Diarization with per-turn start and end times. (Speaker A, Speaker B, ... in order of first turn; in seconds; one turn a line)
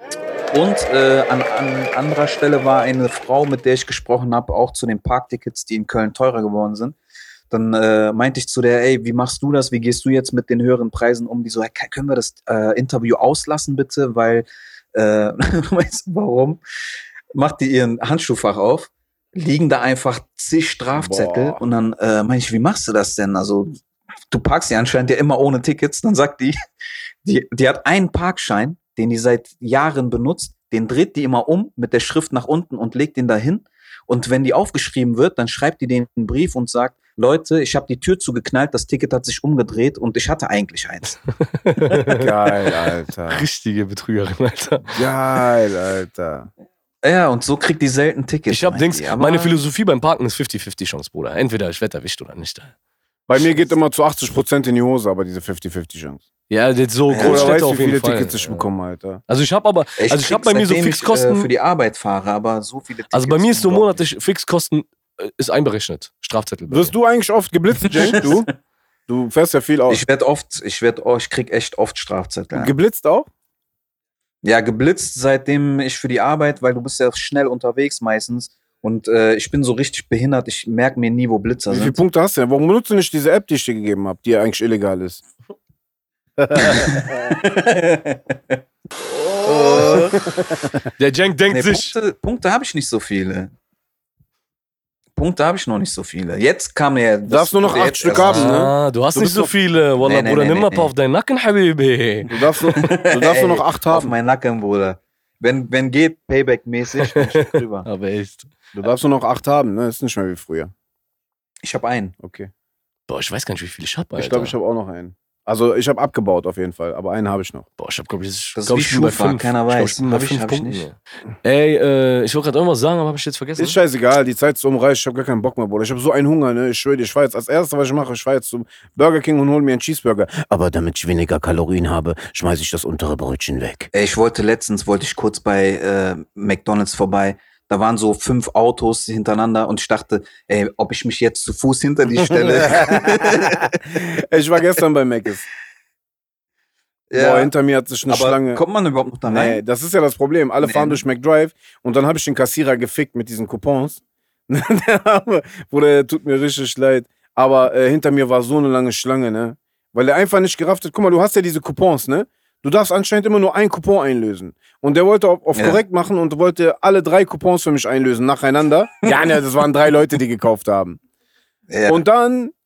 Speaker A: 0.5-7.0
Speaker A: 7.5-16.6
Speaker A: 17.3-23.8
Speaker B: 20.9-21.6
Speaker A: 24.3-26.6
Speaker A: 27.2-41.2
Speaker C: 41.5-42.7
Speaker B: 42.0-43.5
Speaker C: 43.3-44.9
Speaker B: 44.9-46.5
Speaker A: 47.0-49.6
Speaker C: 48.5-52.7
Speaker B: 53.3-56.2
Speaker C: 56.5-58.6
Speaker A: 57.1-57.6
Speaker B: 57.1-59.2
Speaker C: 59.3-61.5
Speaker A: 60.0-64.0
Speaker C: 63.1-66.9
Speaker B: 66.7-68.5
Speaker A: 67.9-68.5
Speaker B: 69.1-70.0
Speaker A: 69.9-72.7
Speaker B: 72.5-73.3
Speaker A: 74.4-82.0
Speaker B: 81.7-85.2
Speaker B: 86.4-87.3
Speaker A: 86.5-88.6
Speaker A: 89.2-90.3
Speaker B: 89.5-90.7
Speaker C: 91.0-91.9
Speaker A: 91.5-93.5
Speaker A: 95.2-98.5
Speaker B: 97.3-99.5
Speaker C: 98.2-102.3
Speaker A: 100.0-100.9
Speaker B: 102.3-104.1
Speaker A: 102.7-107.8
Speaker C: 107.8-108.5
Speaker B: 108.7-110.7
Speaker A: 111.6-112.1
Speaker B: 112.2-112.5
Speaker C: 113.1-114.5
Speaker B: 114.2-117.6
Speaker C: 117.8-123.8
Speaker A: 118.5-120.8
Speaker B: 123.6-133.9
Speaker A: 133.9-143.7
Speaker B: 142.2-145.4
Speaker A: 147.1-147.5
Speaker B: 147.1-148.6
Speaker A: 148.1-149.6
Speaker B: 149.3-171.0
Speaker A: 150.6-151.0
Speaker A: 165.5-165.8
Speaker A: 171.7-172.0
Speaker B: 171.9-172.5